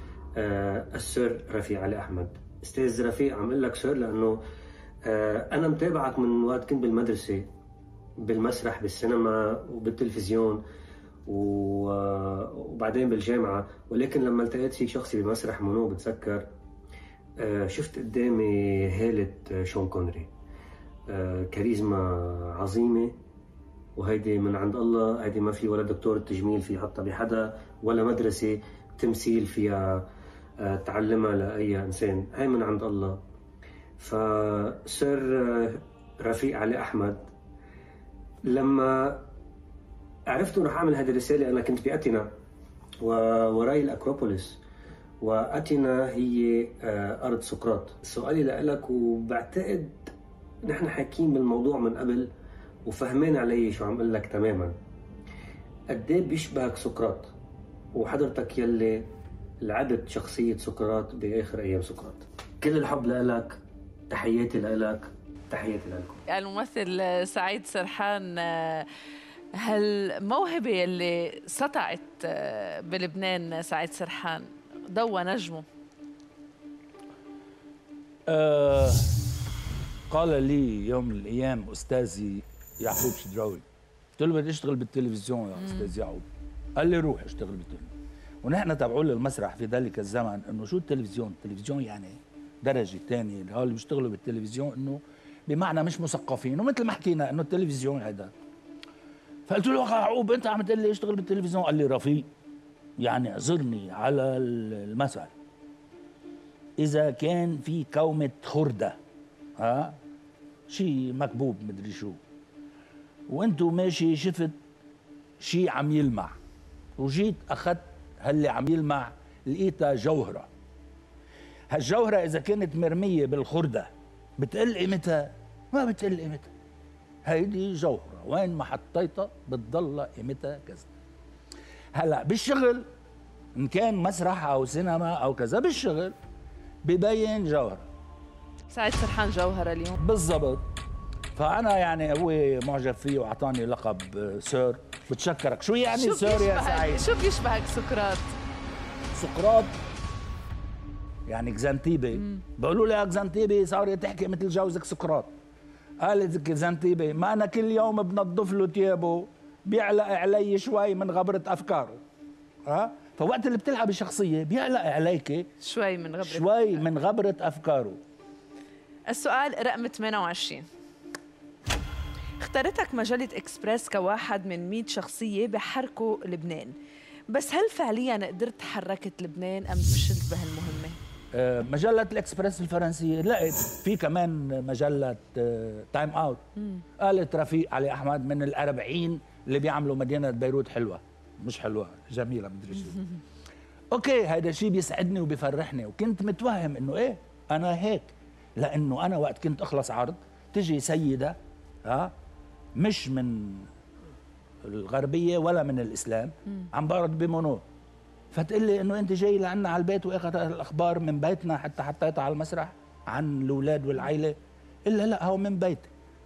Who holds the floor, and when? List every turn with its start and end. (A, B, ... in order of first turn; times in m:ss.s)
0:00.4-0:04.4 A
0:05.0-0:07.5 A
0:08.2-0:10.6 A
0:11.3-0:16.5 A
0:17.4-0:20.3 A
0:21.1-0:23.2 A
0:24.0-0:30.0 A
0:30.6-0:33.2 A
0:34.0-0:37.2 A
0:38.5-0:39.2 A
0:40.3-0:42.3 A
0:43.0-0:44.6 A
0:45.2-0:50.1 A
0:50.6-0:52.3 A
0:52.9-0:54.7 A
0:55.9-0:57.3 A
0:58.0-0:59.1 A
0:59.6-1:03.6 A
1:04.1-1:06.2 A
1:06.3-1:08.9 B
1:09.6-1:15.6 B
1:18.3-1:19.1 C
1:20.1-1:23.6 C
1:24.2-1:26.3 C
1:25.6-1:25.9 B
1:26.8-1:27.9 C
1:28.4-1:38.3 C
1:39.5-1:42.3 C
1:43.0-1:45.3 C
1:46.8-1:49.0 C
1:49.6-1:50.0 C
1:50.7-1:52.2 C
1:53.3-1:54.6 C
1:55.4-1:56.3 C
1:57.0-2:00.5 C
2:01.7-2:06.5 C
2:07.3-2:10.9 C
2:11.9-2:12.8 C
2:13.6-2:16.1 C
2:16.8-2:17.9 C
2:18.7-2:20.0 B
2:20.0-2:20.6 C
2:21.4-2:27.0 C
2:25.9-2:28.3 B
2:29.1-2:29.8 C
2:31.3-2:35.3 C
2:32.2-2:32.4 B
2:36.0-2:42.0 C
2:42.7-2:45.5 C
2:45.6-2:46.8 B
2:46.2-2:48.0 C
2:49.1-2:50.6 B
2:52.4-2:56.8 B
2:57.3-3:01.0 B
3:01.3-3:06.4 C
3:07.0-3:13.0 C
3:13.9-3:22.1 C
3:22.8-3:23.7 C
3:24.6-3:27.6 C
3:28.3-3:34.4 C
3:34.9-3:35.9 C